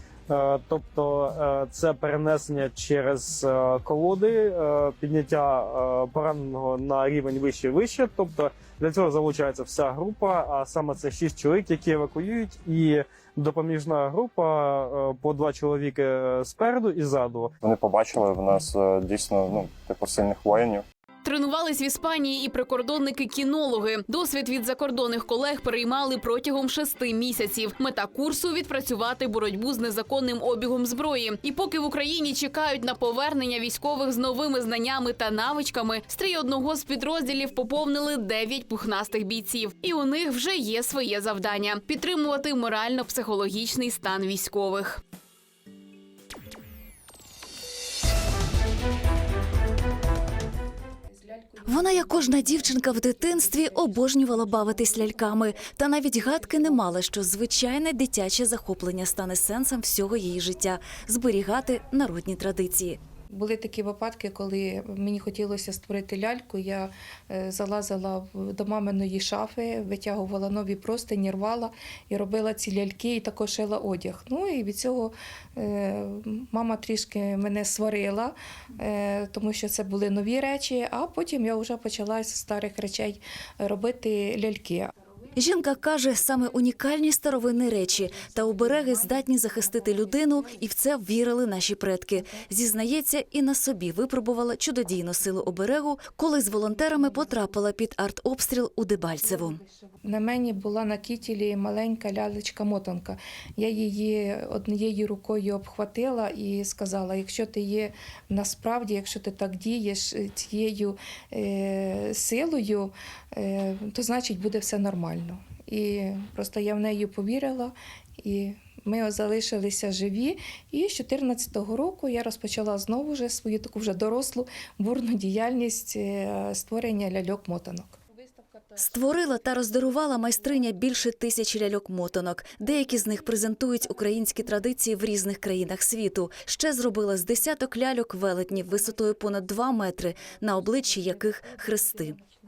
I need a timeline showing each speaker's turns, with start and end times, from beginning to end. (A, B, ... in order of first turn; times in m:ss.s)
0:00.3-0:17.5 A
0:17.6-0:20.8 B
0:21.2-0:45.0 C
0:51.1-0:52.6 D
0:51.7-1:03.0 E
1:03.3-1:24.9 D
1:25.4-1:39.6 E
1:40.0-2:08.0 D
2:08.8-2:22.2 E